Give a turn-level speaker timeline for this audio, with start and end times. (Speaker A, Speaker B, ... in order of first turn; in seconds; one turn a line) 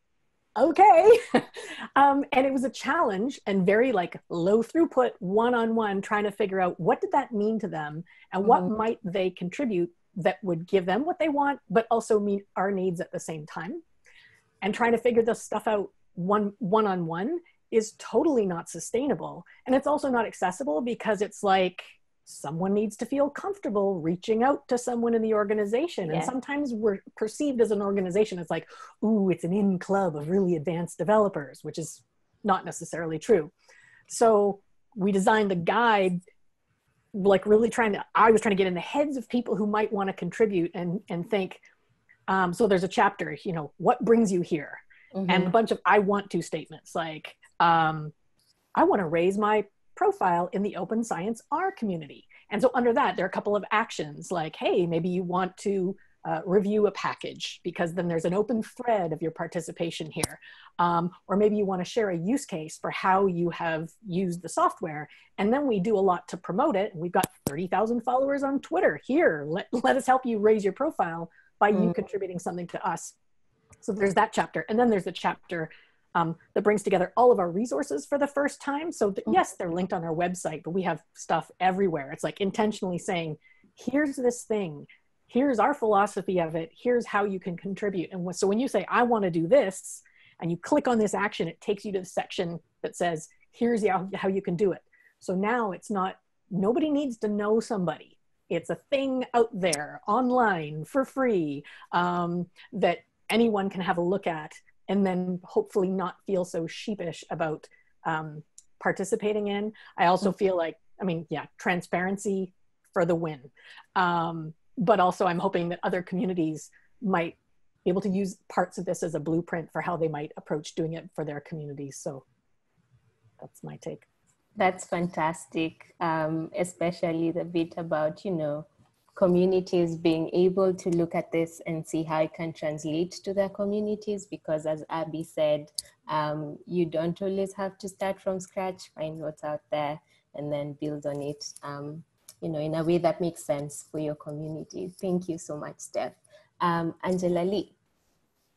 Speaker A: 0.6-13.8
Speaker B: 8.4-8.8
Speaker A: 14.6-33.5
Speaker B: 26.1-26.3
Speaker A: 34.1-36.2
Speaker A: 37.1-41.6
Speaker A: 42.3-48.1
Speaker B: 45.1-45.5
Speaker A: 48.7-73.1
Speaker A: 73.8-122.2
Speaker A: 123.4-124.1
Speaker B: 124.6-147.7